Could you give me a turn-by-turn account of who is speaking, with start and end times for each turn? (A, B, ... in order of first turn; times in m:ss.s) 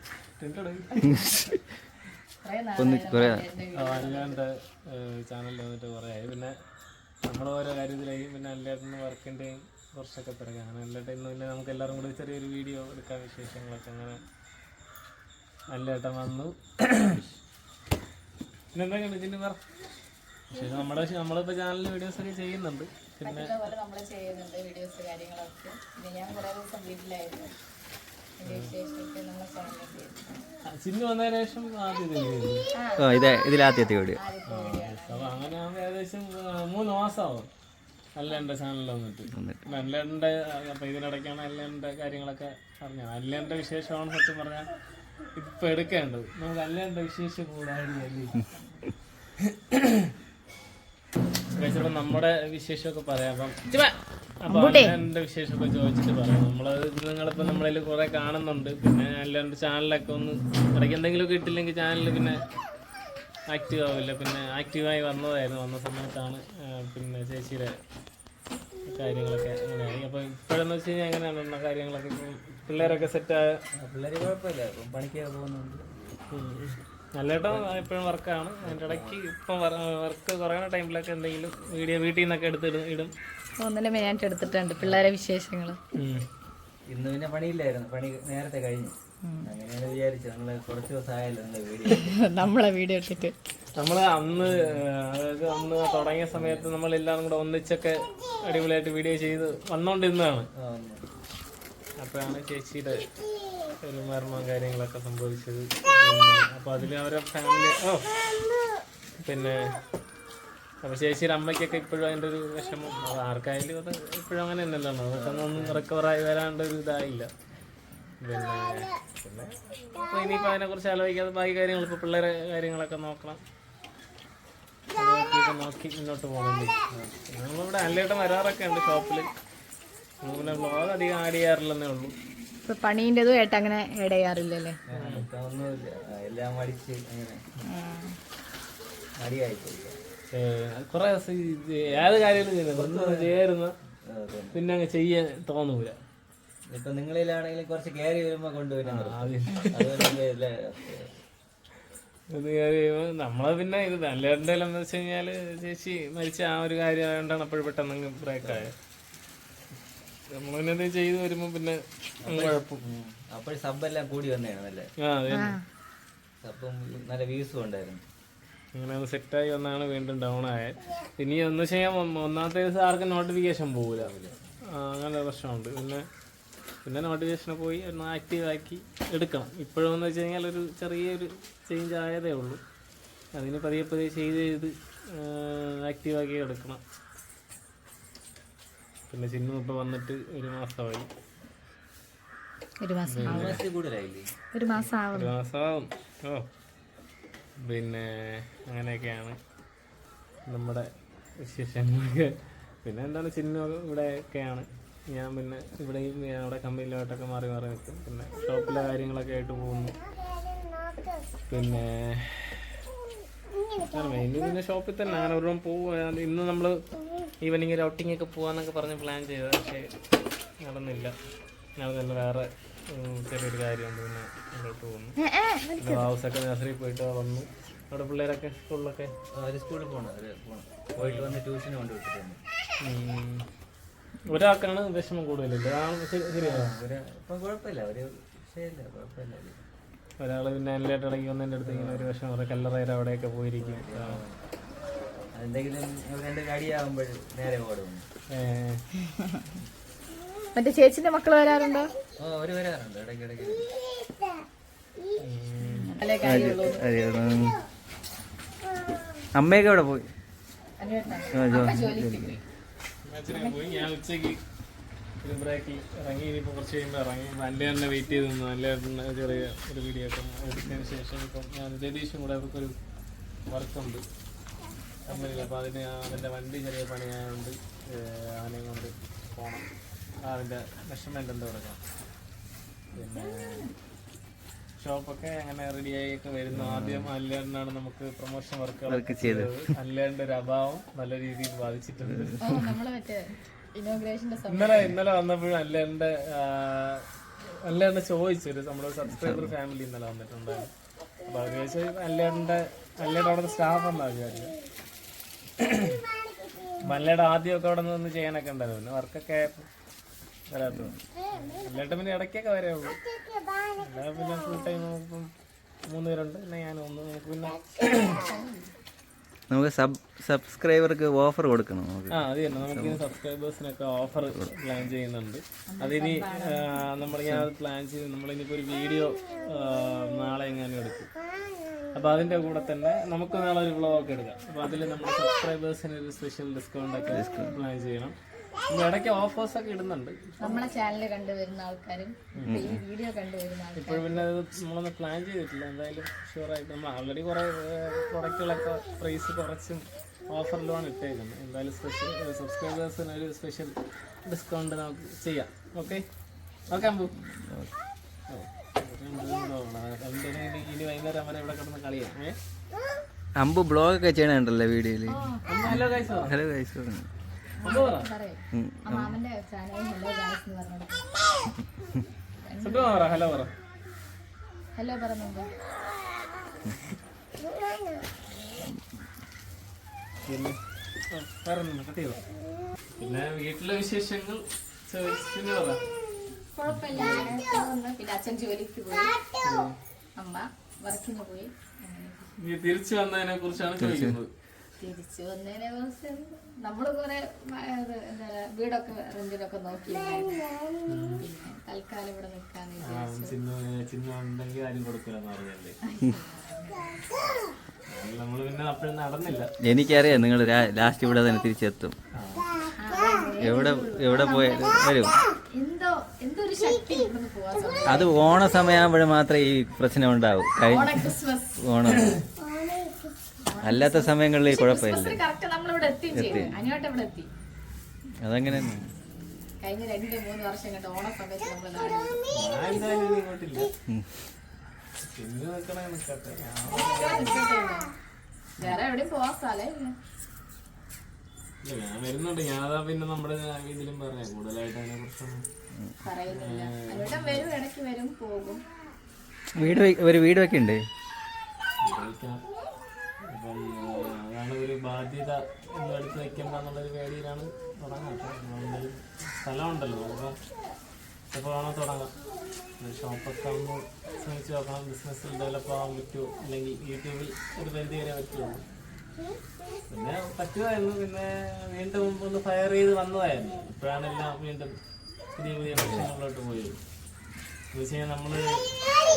0:00.4-0:01.4 A
0:02.4-0:04.4 B
0:02.8-0:03.5 C
0:03.8-0:06.5 A
0:07.2-0:14.2 A
0:15.7-0:17.2 A
0:18.7-0:19.6 A
0:20.5-0:23.6 A
0:20.6-0:21.0 B
0:23.2-0:27.5 B
0:28.4-0:30.4 B
0:28.4-0:28.7 A
0:30.7-0:32.7 A
0:32.8-0:33.1 B
0:33.0-0:34.2 C
0:34.2-0:35.5 B
0:34.5-0:37.5 A
0:38.2-0:44.7 A
0:39.3-0:39.7 C
0:45.4-0:48.5 A
0:48.3-0:48.9 B
0:49.4-0:50.1 A
0:51.6-1:02.4 A
0:54.5-0:55.0 B
1:03.5-1:07.7 A
1:08.8-1:13.6 A
1:12.8-1:13.1 C
1:13.8-1:15.8 C
1:16.3-1:23.1 A
1:17.5-1:17.8 C
1:18.6-1:19.2 C
1:23.6-1:25.8 B
1:25.9-1:26.3 A
1:26.9-1:32.2 C
1:29.2-1:29.5 B
1:31.9-1:33.4 B
1:33.8-1:40.5 A
1:34.4-1:34.8 C
1:36.3-1:36.7 C
1:40.6-1:41.0 C
1:42.0-1:43.1 A
1:43.8-1:48.2 A
1:49.2-1:49.7 A
1:50.8-1:57.3 A
1:55.1-1:55.9 C
1:58.2-2:03.4 A
2:05.0-2:06.8 A
2:06.9-2:07.2 C
2:07.3-2:09.3 A
2:10.2-2:12.1 A
2:12.6-2:14.8 B
2:14.9-2:17.4 C
2:14.9-2:15.3 A
2:17.7-2:18.2 B
2:19.2-2:20.0 C
2:20.3-2:23.7 A
2:22.1-2:23.4 C
2:24.1-2:24.6 C
2:24.5-2:26.0 A
2:26.7-2:31.2 C
2:28.8-2:30.2 A
2:32.3-2:38.7 A
2:38.4-2:38.7 C
2:40.3-2:42.8 A
2:42.2-2:44.9 C
2:45.0-2:45.6 A
2:45.3-2:45.6 B
2:46.4-2:48.0 C
2:48.8-2:54.1 A
2:54.0-2:54.6 C
2:54.7-2:56.1 A
2:56.8-3:02.6 A
3:03.3-3:06.8 A
3:09.1-3:11.1 A
3:12.8-3:13.6 B
3:13.1-3:13.6 A
3:13.2-3:14.3 C
3:14.5-3:15.4 B
3:14.8-3:16.5 A
3:17.6-3:19.4 A
3:20.5-3:30.0 A
3:31.5-3:32.8 A
3:33.8-3:36.8 A
3:37.4-3:39.9 A
3:40.6-3:41.2 A
3:41.8-3:45.2 A
3:45.2-3:46.1 B
3:45.8-3:49.1 A
3:49.3-3:52.4 C
3:51.0-3:51.4 A
3:52.8-3:53.5 A
3:54.3-3:56.7 A
3:56.4-3:59.6 C
4:00.2-4:04.2 A
4:01.6-4:02.1 C
4:03.6-4:04.4 C
4:05.3-4:08.0 C
4:08.3-4:08.8 A
4:09.0-4:09.5 B
4:10.5-4:11.9 B
4:12.2-4:13.7 C
4:15.2-4:16.0 A
4:15.7-4:16.8 B
4:16.2-4:17.6 C
4:19.3-4:20.1 C
4:20.8-4:22.4 B
4:21.3-4:22.4 C
4:23.0-4:24.4 A
4:23.3-4:23.8 B
4:25.2-4:32.8 A
4:33.5-4:34.0 A
4:35.1-4:39.7 A
4:35.1-4:35.5 B
4:40.2-4:41.8 A
4:42.9-4:43.7 A
4:43.2-4:43.7 B
4:44.8-4:52.4 A
4:46.5-4:47.1 C
4:48.9-4:49.7 C
4:52.0-4:52.7 C
4:52.4-4:54.9 B
4:54.5-5:00.7 A
4:59.1-4:59.5 C
5:01.2-5:04.6 A
5:05.6-5:06.0 A
5:06.8-5:09.7 A
5:10.5-5:13.0 A
5:10.7-5:11.0 C
5:13.7-5:15.3 A
5:15.9-5:18.3 A
5:18.0-5:18.7 B
5:19.5-5:23.0 C
5:22.1-5:31.1 A
5:25.7-5:26.9 B
5:27.1-5:27.5 C
5:31.9-5:38.2 A
5:37.1-5:37.6 C
5:38.7-5:40.7 A
5:40.4-5:44.3 B
5:42.3-5:42.7 A
5:42.4-5:42.8 C
5:43.8-5:56.1 A
5:56.7-5:57.2 A
5:57.4-5:57.8 C
5:58.3-6:02.4 A
6:03.4-6:07.1 C
6:05.1-6:05.4 B
6:05.4-6:06.4 A
6:07.6-6:11.0 B
6:07.6-6:08.1 A
6:08.5-6:09.2 C
6:12.4-6:13.2 B
6:12.6-6:13.5 A
6:14.8-6:15.5 B
6:20.3-6:20.6 A
6:21.1-6:22.2 A
6:23.0-6:25.8 A
6:26.4-6:29.2 B
6:26.9-6:27.4 A
6:29.4-6:29.8 A
6:30.2-6:32.3 B
6:32.4-6:34.3 A
6:33.8-6:34.2 C
6:34.8-6:40.5 B
6:40.9-6:41.3 A
6:41.2-6:43.4 B
6:42.8-6:45.8 A
6:45.8-6:47.1 B
6:47.9-6:50.3 A
6:49.6-6:52.0 C
6:52.1-6:52.5 A
6:52.8-6:55.0 B
6:53.4-6:55.2 C
6:55.5-6:58.2 B
6:57.9-7:02.2 C
7:00.6-7:01.6 B
7:03.4-7:07.3 B
7:03.6-7:05.2 C
7:06.1-7:06.6 C
7:08.2-7:08.9 C
7:09.6-7:12.2 B
7:12.3-7:13.7 A
7:15.1-7:17.5 A
7:16.7-7:17.9 B
7:18.6-7:19.9 B
7:21.6-7:25.4 A
7:26.0-7:28.6 B
7:26.3-7:27.6 A
7:29.6-7:30.8 C
7:29.6-7:29.9 B
7:31.8-7:32.4 A
7:33.3-7:40.4 A
7:41.3-7:42.1 A
7:42.8-7:48.6 A
7:49.9-7:54.8 A
7:55.4-7:56.8 A
7:55.7-7:56.1 C
7:57.7-7:58.6 A